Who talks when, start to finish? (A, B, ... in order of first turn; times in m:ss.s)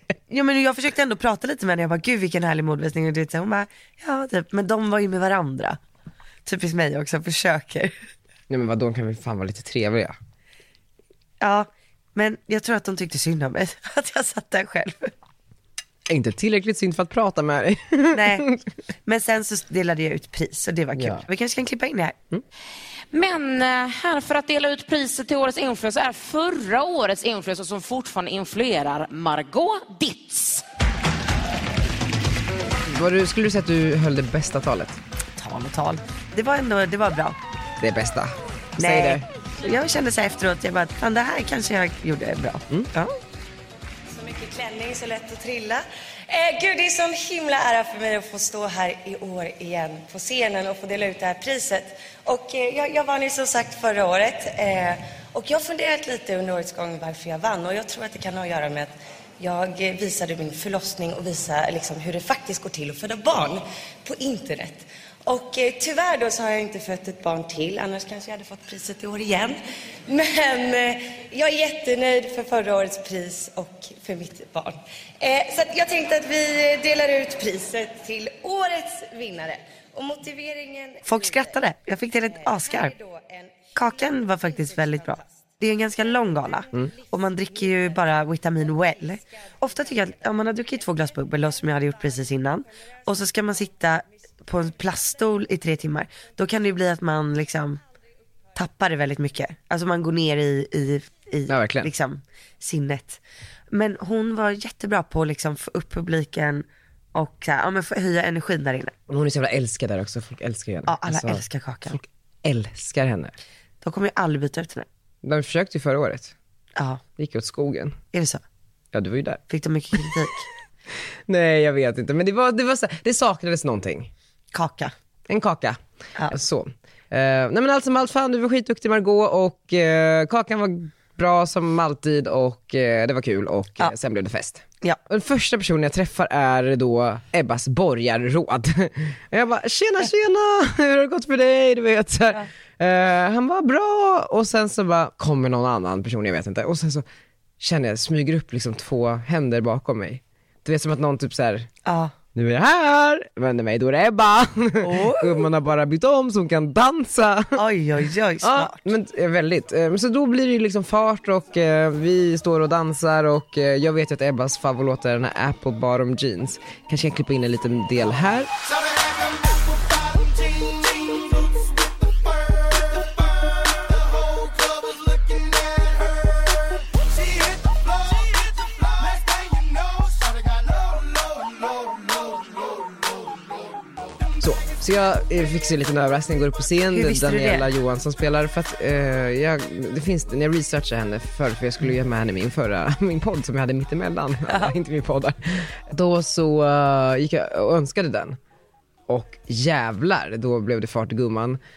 0:00.3-0:05.8 A
0:06.4-0:08.0 A
0:08.5-0:10.2 B
0:11.4-0:15.1 A
0:16.1-0:18.6 B
0:18.1-0:18.5 A
0:19.0-0:22.2 A
0:21.0-0:21.2 B
0:23.1-0:30.6 C
0:32.9-0:35.0 B
0:35.4-0:37.4 A
0:37.8-0:39.2 B
0:38.8-0:43.2 A
0:44.1-1:21.6 D
1:21.0-1:22.9 A
1:22.3-1:25.4 D
1:23.8-1:37.8 A
1:26.6-1:28.0 D
1:29.4-1:30.2 D
1:38.6-1:48.9 A
1:41.5-1:41.9 B
1:49.1-1:53.4 B
1:50.9-1:52.0 A
1:53.8-1:54.9 A
1:55.2-1:56.4 B
1:56.8-1:57.0 A
1:57.2-1:58.0 B
1:58.1-1:58.4 A
1:58.9-1:59.4 B
1:59.5-2:00.5 A
2:01.3-2:04.1 B
2:04.5-2:04.9 A
2:05.3-2:05.8 B
2:06.3-2:27.0 B
2:27.6-2:31.7 B
2:31.8-2:32.1 A
2:32.4-2:37.6 B
2:34.8-2:35.5 A
2:37.6-2:38.9 A
2:38.4-2:48.5 B
3:04.4-3:18.4 B
3:06.9-3:07.7 A
3:14.5-3:14.7 A
3:19.1-3:21.6 B